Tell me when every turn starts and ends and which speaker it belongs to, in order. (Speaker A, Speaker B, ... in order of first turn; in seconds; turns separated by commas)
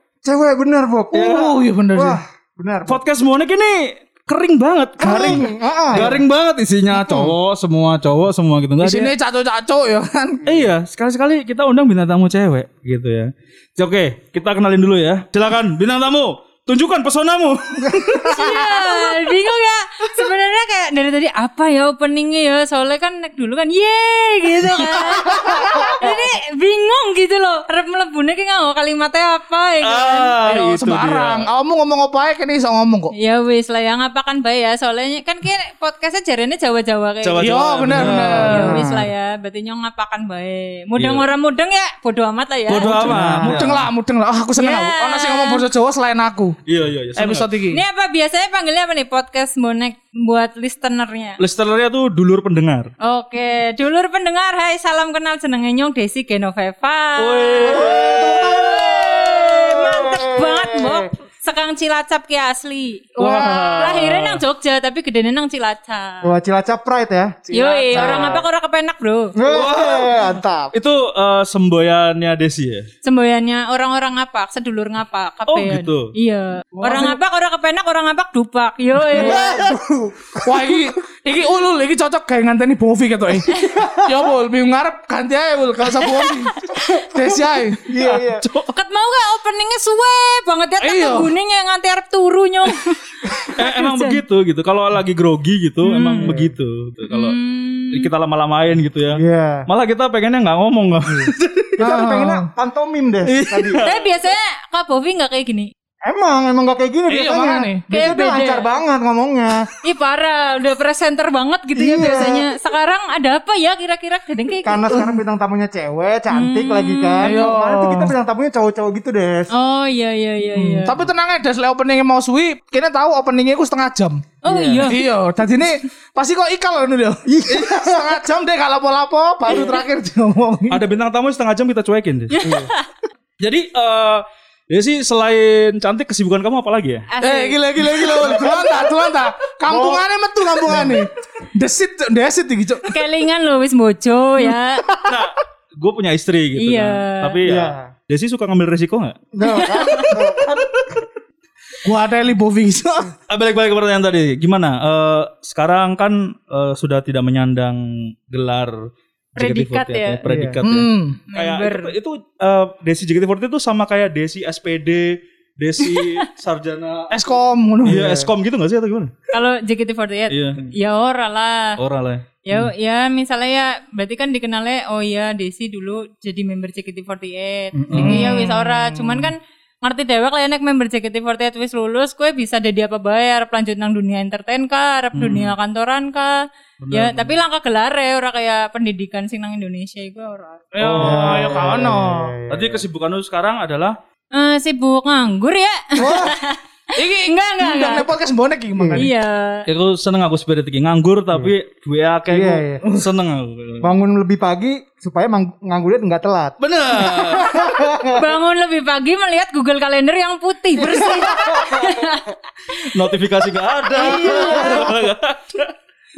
Speaker A: 0.2-1.3, Speaker B: 1.1-1.6, Speaker C: 1.1-2.2, Speaker A: 1.9-3.0, Speaker B: 2.9-9.1, Speaker A: 5.0-6.2, Speaker A: 6.9-7.4, Speaker C: 8.8-10.4, Speaker B: 10.5-18.6, Speaker C: 18.1-18.9, Speaker D: 18.3-30.4, Speaker B: 25.0-25.2, Speaker B: 29.8-31.5, Speaker C: 30.4-33.1, Speaker D: 33.2-43.1, Speaker B: 37.2-38.5, Speaker C: 37.4-38.8, Speaker A: 38.5-39.1, Speaker B: 41.0-41.2, Speaker B: 42.7-43.9, Speaker A: 43.0-43.7, Speaker C: 43.4-46.6, Speaker D: 44.6-45.6, Speaker B: 46.7-47.5, Speaker C: 47.2-47.8, Speaker D: 47.7-51.4, Speaker B: 51.4-52.9, Speaker D: 53.0-66.3, Speaker B: 57.2-59.0, Speaker A: 57.6-61.1, Speaker C: 63.2-63.9, Speaker B: 63.2-64.4, Speaker A: 63.5-63.8, Speaker A: 66.2-67.4, Speaker C: 67.5-68.4, Speaker D: 67.5-69.3, Speaker A: 67.9-68.5, Speaker A: 69.3-70.7, Speaker B: 69.5-72.9, Speaker D: 73.0-79.6, Speaker B: 75.5-76.1, Speaker A: 79.1-80.9, Speaker C: 80.4-87.8, Speaker D: 83.5-83.8, Speaker A: 83.6-84.3, Speaker D: 86.7-87.0, Speaker A: 87.8-88.5, Speaker B: 88.0-88.7, Speaker D: 88.7-94.2, Speaker C: 90.8-91.3, Speaker B: 93.5-97.4, Speaker D: 95.8-96.3, Speaker A: 96.2-96.5, Speaker D: 97.1-98.1, Speaker B: 97.9-101.8, Speaker A: 99.1-99.7, Speaker A: 101.1-103.9, Speaker C: 101.8-102.5, Speaker B: 103.2-104.1, Speaker D: 103.8-105.7, Speaker A: 106.0-109.7, Speaker C: 107.1-107.8, Speaker D: 107.9-108.7, Speaker D: 109.8-115.1, Speaker A: 111.8-112.5, Speaker A: 114.7-119.5, Speaker D: 116.3-117.4, Speaker C: 117.2-118.1, Speaker D: 119.5-121.0, Speaker C: 120.6-124.3, Speaker D: 124.4-125.0, Speaker A: 124.5-124.9, Speaker C: 124.9-130.8, Speaker A: 127.3-128.2, Speaker D: 129.5-129.8, Speaker B: 130.7-132.4, Speaker D: 132.3-132.9, Speaker A: 132.4-132.7, Speaker B: 133.4-137.1, Speaker D: 137.1-137.6, Speaker C: 137.2-142.9, Speaker A: 138.2-138.8, Speaker A: 139.7-140.1, Speaker A: 140.6-141.1, Speaker D: 142.9-144.8, Speaker C: 144.4-145.2, Speaker B: 145.1-149.2, Speaker D: 146.6-147.4, Speaker A: 147.4-147.9, Speaker A: 149.3-150.8, Speaker D: 149.4-150.1, Speaker C: 151.8-153.1, Speaker B: 153.3-158.8, Speaker B: 159.3-167.2, Speaker D: 159.4-160.2, Speaker A: 160.3-160.6, Speaker C: 160.6-161.2, Speaker D: 161.3-161.9, Speaker D: 165.8-166.1, Speaker C: 167.1-168.0, Speaker B: 167.8-169.1, Speaker A: 167.8-168.3, Speaker D: 169.3-171.8, Speaker B: 170.3-170.6, Speaker B: 171.8-172.2, Speaker D: 172.4-190.7, Speaker A: 177.8-178.3, Speaker B: 177.9-178.3, Speaker C: 178.0-179.3, Speaker B: 186.8-187.3, Speaker C: 190.7-192.3, Speaker B: 190.8-191.9, Speaker A: 191.0-192.8, Speaker B: 192.5-194.0, Speaker D: 194.3-196.6, Speaker A: 196.0-196.3, Speaker C: 197.0-199.1, Speaker D: 197.2-198.1, Speaker A: 198.8-199.1, Speaker D: 199.0-199.7, Speaker B: 199.7-203.9, Speaker A: 202.3-202.8, Speaker A: 203.8-208.2, Speaker B: 206.6-207.5, Speaker D: 208.1-212.9, Speaker A: 210.7-212.2, Speaker B: 212.9-215.7, Speaker D: 213.9-214.9, Speaker A: 213.9-215.1